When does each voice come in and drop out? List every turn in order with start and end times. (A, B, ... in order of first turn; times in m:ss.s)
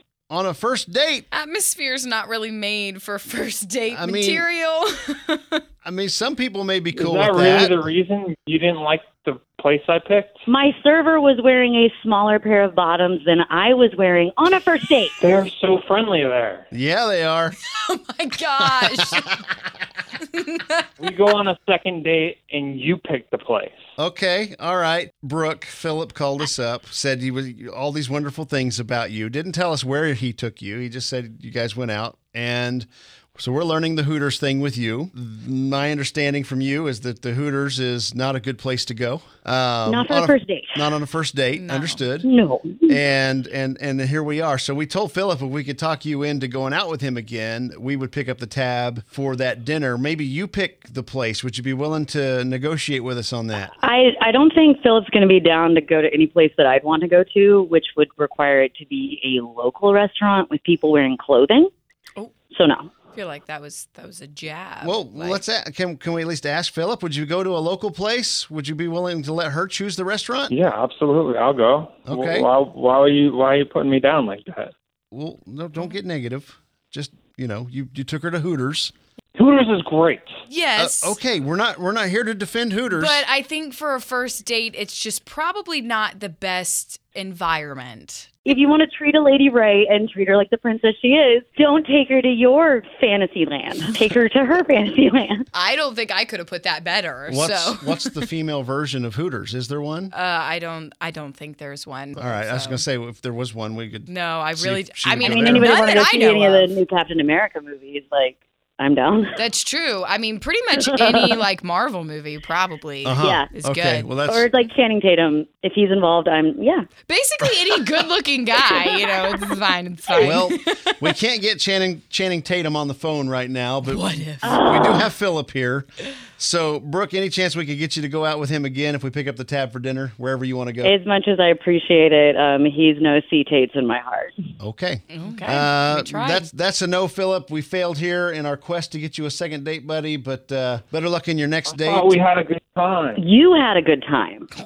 0:00.3-0:01.3 A
0:01.3-0:05.6 B
0:03.9-0:04.5 A
0:05.8-0:07.8 A
0:06.9-0:10.3 C
0:10.5-0:15.2 D
0:15.2-0:16.7 C
0:16.7-0:17.6 A
0:17.6-0:19.5 B
0:18.6-0:19.2 A
0:20.2-0:20.9 B
0:21.0-0:23.8 C
0:24.0-0:42.3 A
0:39.9-0:40.8 D
0:41.6-0:42.0 B
0:42.2-0:43.0 D
0:42.9-0:53.7 A
0:53.8-1:01.7 D
1:02.5-1:02.9 D
1:03.1-1:05.4 B
1:04.8-1:10.6 A
1:10.5-1:14.7 C
1:12.1-1:12.5 A
1:15.1-1:18.9 A
1:19.4-1:20.3 C
1:20.5-1:21.2 B
1:20.8-1:23.2 A
1:22.9-1:28.3 B
1:28.5-1:35.5 D
1:35.5-1:38.3 B
1:37.3-1:40.1 A
1:40.1-1:42.8 B
1:42.2-1:45.7 A
1:44.1-1:46.7 B
1:45.2-1:49.4 D
1:49.4-1:54.1 B
1:53.0-1:54.5 A
1:53.2-1:53.5 D
1:54.3-1:56.9 D
1:57.1-2:01.0 B
2:00.2-2:10.9 A
2:03.9-2:04.9 B
2:04.4-2:05.1 D
2:10.8-2:14.4 D
2:14.6-2:22.1 A
2:15.1-2:16.5 B
2:21.7-2:23.2 C
2:23.2-2:24.5 D